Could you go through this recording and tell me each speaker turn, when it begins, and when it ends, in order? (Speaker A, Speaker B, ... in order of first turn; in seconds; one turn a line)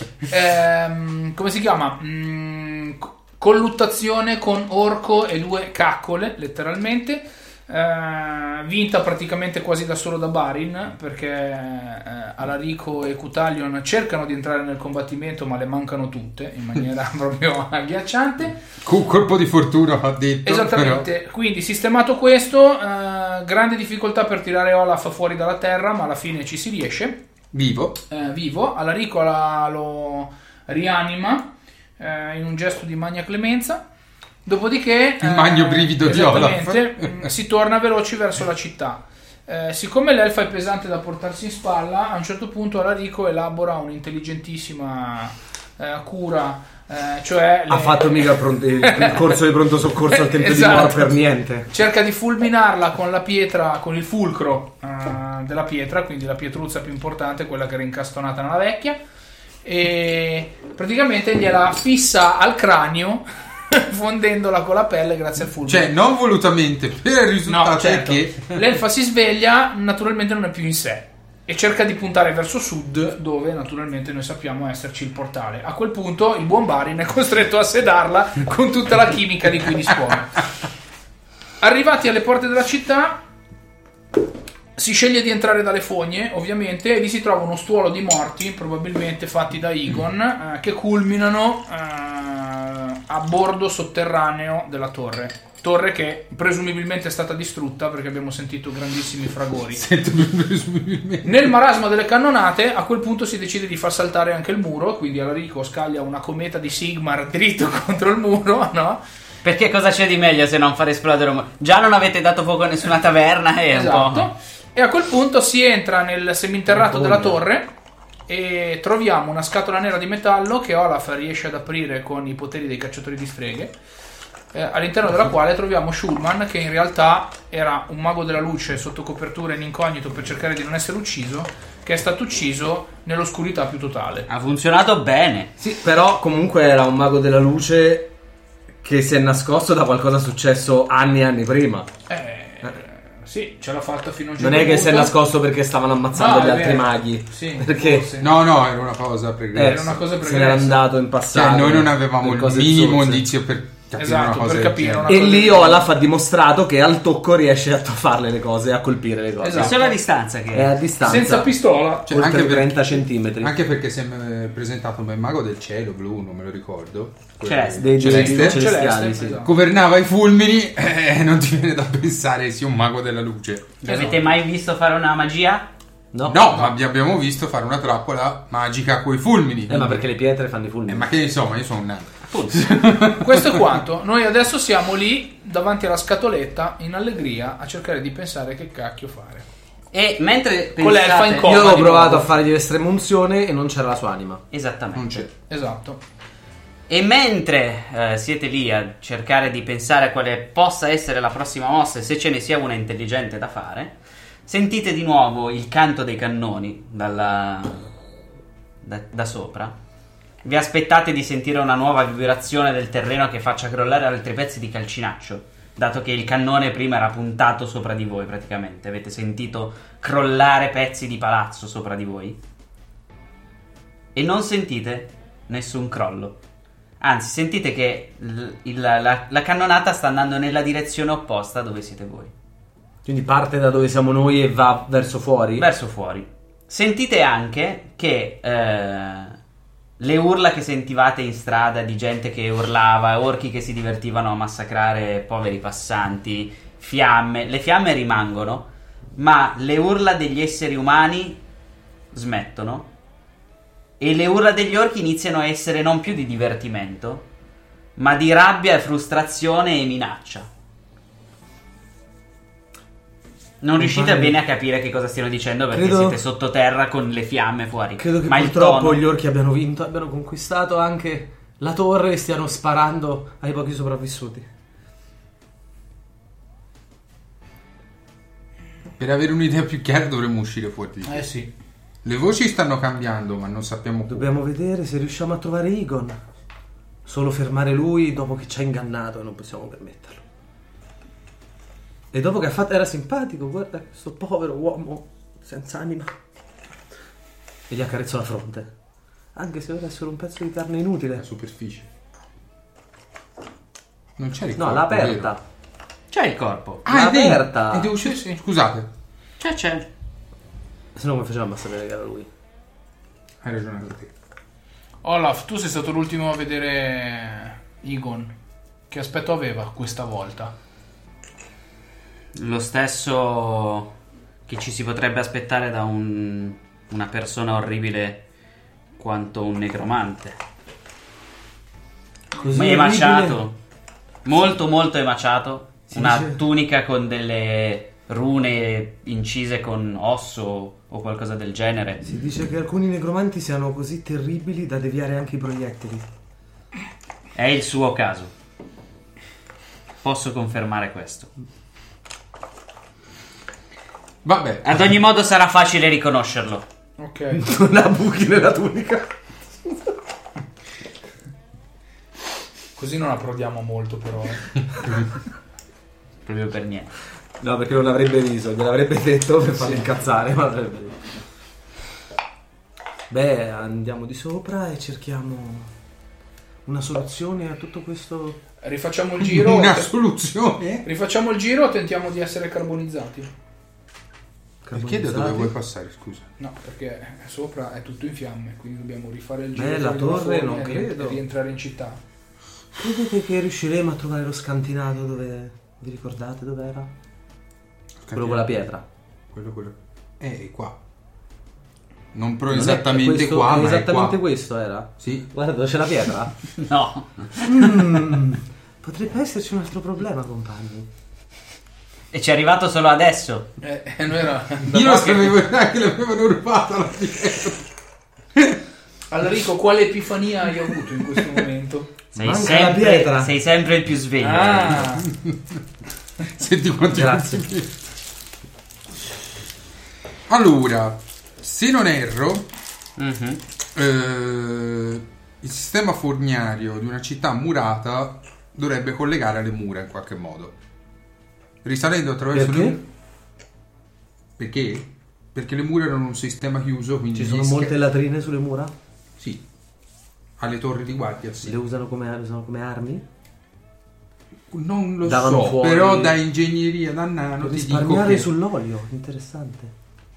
Speaker A: 0.3-18.6
Speaker B: 18.8-21.1
Speaker A: 20.4-27.2
Speaker B: 27.5-28.0
Speaker A: 28.1-33.9
Speaker A: 34.4-48.3
Speaker B: 35.2-37.2
Speaker C: 47.7-51.7
Speaker A: 48.8-49.3
Speaker A: 50.1-51.1
Speaker A: 51.7-59.0
Speaker A: 59.6-65.9
Speaker B: 65.5-68.6
Speaker A: 67.5-80.4
Speaker A: 81.6-83.2
Speaker A: 84.8-99.8
Speaker B: 99.7-101.5
Speaker A: 101.2-109.0
Speaker D: 109.4-114.3
Speaker A: 113.7-117.7
Speaker C: 116.7-117.4
Speaker A: 118.3-123.7
Speaker A: 124.5-134.3
Speaker D: 134.3-135.5
Speaker C: 135.6-138.1
Speaker C: 138.8-141.9
Speaker A: 142.1-145.1
Speaker C: 144.4-148.1
Speaker A: 146.1-148.3
Speaker B: 148.2-150.0
Speaker C: 149.5-153.2
Speaker A: 149.6-150.9
Speaker B: 151.3-155.2
Speaker A: 154.0-155.9
Speaker C: 155.1-159.8
Speaker A: 159.4-159.9
Speaker D: 159.5-160.8
Speaker C: 160.5-161.5
Speaker A: 161.0-162.1
Speaker C: 162.1-163.5
Speaker B: 162.1-168.7
Speaker D: 167.4-168.3
Speaker C: 167.8-169.4
Speaker A: 168.0-169.5
Speaker B: 169.4-173.8
Speaker D: 173.8-175.7
Speaker A: 173.8-174.2
Speaker C: 176.1-176.5
Speaker B: 176.2-180.0
Speaker C: 179.7-181.1
Speaker B: 180.9-183.7
Speaker D: 182.3-182.7
Speaker A: 183.2-189.5
Speaker D: 189.9-192.2
Speaker A: 190.8-192.2
Speaker C: 191.4-194.4
Speaker D: 194.5-195.3
Speaker B: 194.9-195.3
Speaker A: 195.5-196.0
Speaker D: 196.9-203.9
Speaker D: 204.5-207.9
Speaker D: 208.8-209.7
Speaker D: 210.4-222.4
Speaker D: 224.1-226.4
Speaker D: 227.0-232.3
Speaker C: 233.0-235.7
Speaker D: 235.6-239.4
Speaker D: 240.0-251.4
Speaker D: 252.1-252.9
Speaker D: 254.0-257.2
Speaker D: 258.0-260.5
Speaker D: 263.6-269.0
Speaker C: 263.8-264.4
Speaker C: 265.7-266.2
Speaker C: 268.0-274.5
Speaker B: 279.0-281.2
Speaker A: 281.0-281.5
Speaker B: 282.0-284.3
Speaker C: 284.1-286.2
Speaker C: 287.0-290.2
Speaker C: 292.1-296.1
Speaker C: 297.7-298.7
Speaker C: 299.3-301.2
Speaker B: 301.2-301.9
Speaker B: 304.2-305.3
Speaker C: 304.5-305.4
Speaker D: 306.1-306.8
Speaker B: 306.8-308.9
Speaker C: 306.9-307.9
Speaker A: 308.0-308.4
Speaker D: 309.4-309.9
Speaker C: 310.9-312.3
Speaker B: 313.4-314.1
Speaker A: 315.0-318.3
Speaker A: 318.9-320.5
Speaker D: 322.3-323.9
Speaker D: 324.5-328.2
Speaker D: 329.0-330.4
Speaker C: 332.4-333.4
Speaker D: 332.5-333.5
Speaker D: 334.2-342.1
Speaker C: 335.9-336.4
Speaker C: 342.0-346.1
Speaker D: 347.3-348.3
Speaker D: 350.0-351.3
Speaker B: 354.2-354.9
Speaker D: 354.6-356.6
Speaker A: 357.0-357.4
Speaker C: 357.3-359.1
Speaker A: 362.8-364.9
Speaker D: 366.2-366.9
Speaker C: 367.4-371.0
Speaker A: 369.6-369.9
Speaker C: 373.1-375.7
Speaker C: 376.6-378.4
Speaker A: 378.6-379.9
Speaker B: 379.2-380.9
Speaker A: 380.8-383.3
Speaker C: 384.6-385.5
Speaker B: 384.7-386.2
Speaker A: 386.4-392.0
Speaker C: 389.5-391.2
Speaker C: 392.7-396.9
Speaker B: 398.0-398.5
Speaker C: 398.1-398.8
Speaker B: 399.3-400.8
Speaker B: 402.1-404.2
Speaker C: 402.5-406.3
Speaker B: 405.0-405.2
Speaker D: 406.6-407.9
Speaker C: 407.4-410.9
Speaker D: 412.1-413.5
Speaker A: 413.6-415.4
Speaker B: 414.7-417.6
Speaker A: 419.1-421.9
Speaker D: 422.1-424.9
Speaker C: 422.1-423.3
Speaker A: 424.2-425.1
Speaker B: 425.0-425.5
Speaker B: 426.3-427.7
Speaker C: 426.9-427.4
Speaker B: 430.3-432.4
Speaker D: 433.0-433.4
Speaker B: 433.7-440.5
Speaker B: 441.6-442.8
Speaker C: 442.3-442.8
Speaker B: 444.4-447.7
Speaker C: 447.1-448.7
Speaker B: 450.4-451.5
Speaker C: 451.4-453.0
Speaker B: 454.5-458.3
Speaker C: 455.0-456.2
Speaker C: 457.4-459.7